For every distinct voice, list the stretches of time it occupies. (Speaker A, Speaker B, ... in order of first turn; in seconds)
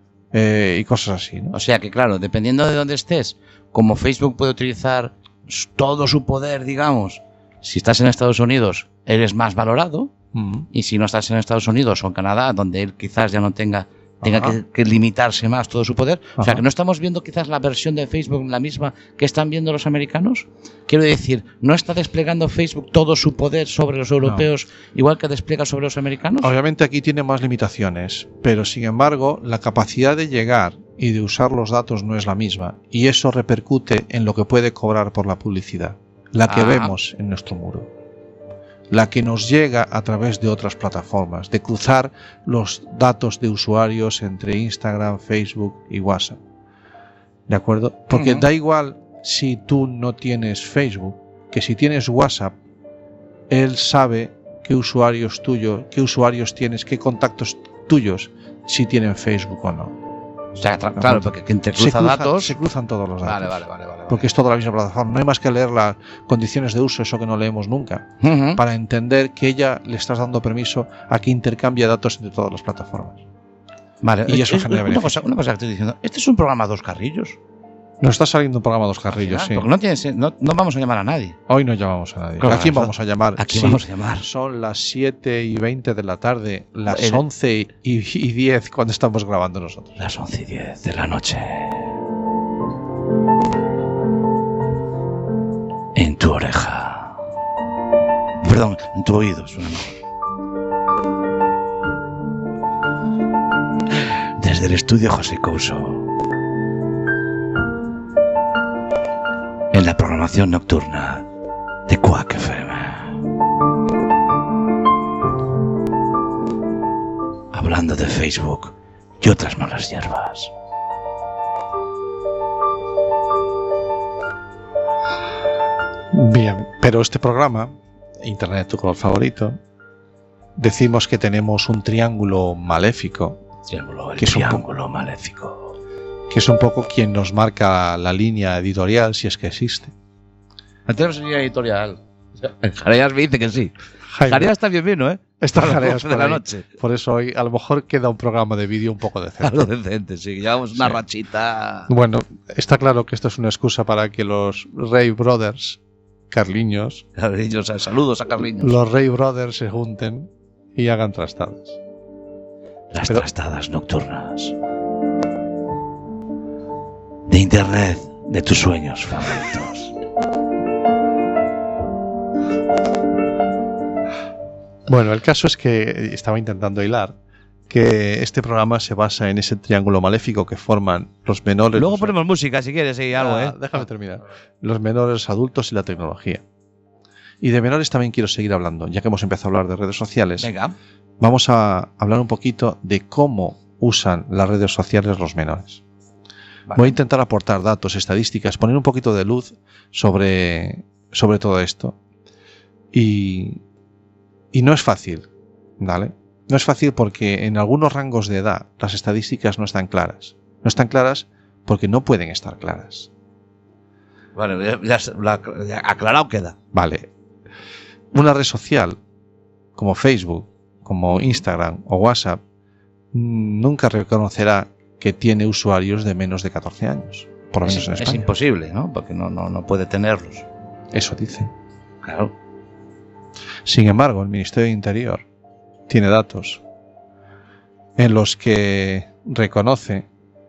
Speaker A: 0.3-1.5, 10.3-10.7, 14.2-14.6, 16.4-16.6, 26.4-37.9, 38.9-46.4, 47.5-52.5, 53.5-60.0, 61.0-73.2, 74.3-75.2, 78.0-79.7, 81.5-90.0, 126.1-129.6, 130.6-133.4, 134.2-134.6, 136.3-139.9, 144.1-144.5, 145.4-149.7, 150.7-151.0, 151.9-155.8, 156.3-157.0, 158.6-161.8, 174.9-177.1, 177.7-182.2, 183.1-186.4, 187.4-190.5, 191.2-195.8, 196.7-201.9, 202.9-203.6, 204.5-205.3, 205.8-213.1, 216.7-217.1, 218.1-219.0, 219.7-222.4, 223.1-228.3, 230.9-231.5, 233.6-235.2, 235.9-236.6, 237.9-240.1
Speaker B: 1.5-10.1, 10.7-26.5, 36.5-37.0, 48.1-48.5, 60.5-62.6, 63.2-64.3, 68.2-68.6, 74.0-77.4, 79.1-81.4, 82.4-84.3, 86.9-87.2, 90.0-91.9, 95.9-97.2, 98.4-100.0, 104.4-106.1, 109.7-111.3, 111.9-113.2, 117.5-120.5, 133.7-135.7, 140.9-146.7, 149.4-151.9, 157.1-158.8, 162.9-164.5, 167.3-169.9, 181.7-183.8, 190.4-190.7, 196.7-196.9, 214.3-216.6, 227.6-230.4, 232.0-232.3